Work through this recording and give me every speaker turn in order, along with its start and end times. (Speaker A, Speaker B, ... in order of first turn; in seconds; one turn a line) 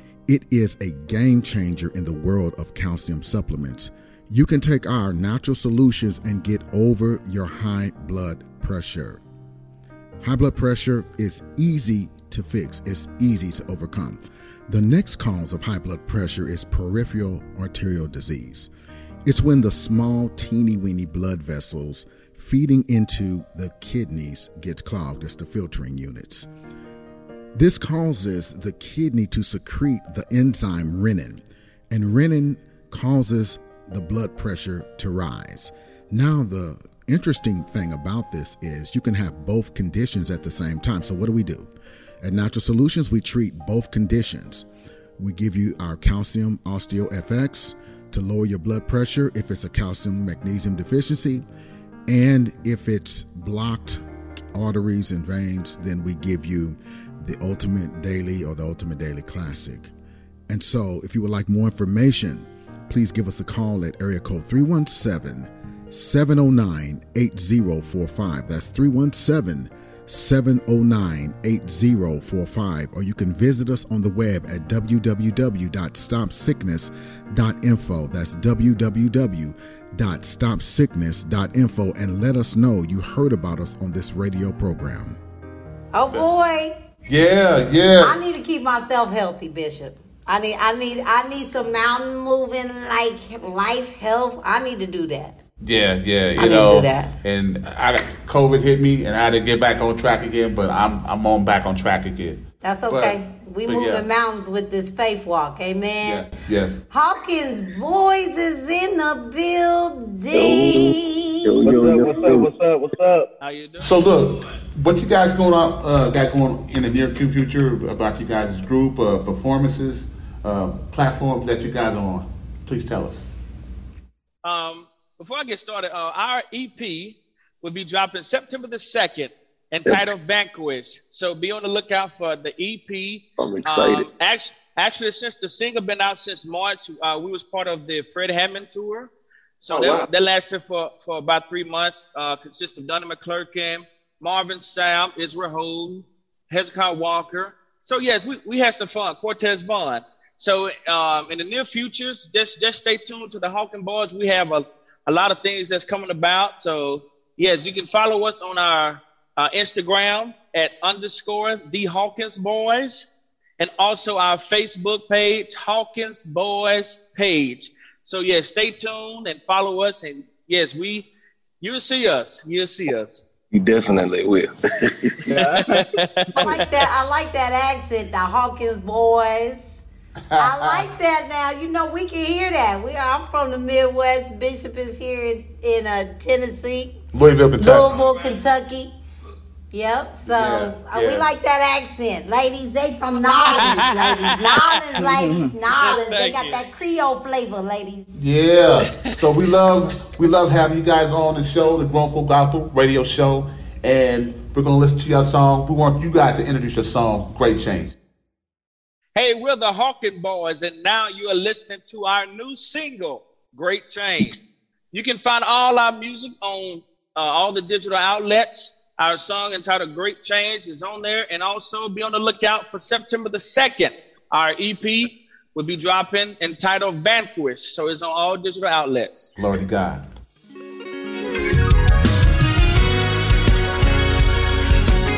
Speaker A: 0.3-9.2
Speaker A: 10.2-18.7
Speaker A: 19.2-26.5
Speaker A: 27.5-41.7
Speaker A: 42.2-44.6
Speaker A: 45.2-51.4
Speaker A: 52.1-54.0
Speaker A: 54.5-59.9
Speaker A: 60.5-85.2
Speaker B: 85.9-86.7
Speaker C: 87.1-88.2
Speaker B: 88.0-95.4
Speaker C: 95.6-104.0
Speaker B: 96.4-97.1
Speaker B: 102.6-106.2
Speaker C: 106.0-106.8
Speaker B: 106.9-112.2
Speaker D: 110.3-112.5
Speaker E: 111.6-113.3
Speaker F: 113.4-114.2
Speaker C: 113.8-123.2
Speaker F: 124.4-163.1
Speaker D: 129.8-130.1
Speaker D: 133.4-134.1
Speaker C: 139.7-140.1
Speaker F: 163.6-171.1
Speaker F: 171.6-173.2
Speaker D: 173.5-175.5
Speaker E: 175.3-175.8
Speaker F: 175.3-176.5
Speaker B: 176.3-179.8
Speaker C: 180.3-180.8
Speaker B: 180.4-187.0
Speaker C: 187.1-188.0
Speaker B: 187.6-188.9
Speaker B: 189.7-198.2
Speaker C: 190.2-191.2
Speaker F: 193.4-195.0
Speaker F: 195.8-196.6
Speaker C: 198.1-207.9
Speaker F: 209.1-214.4
Speaker F: 214.9-229.3
Speaker C: 229.4-230.1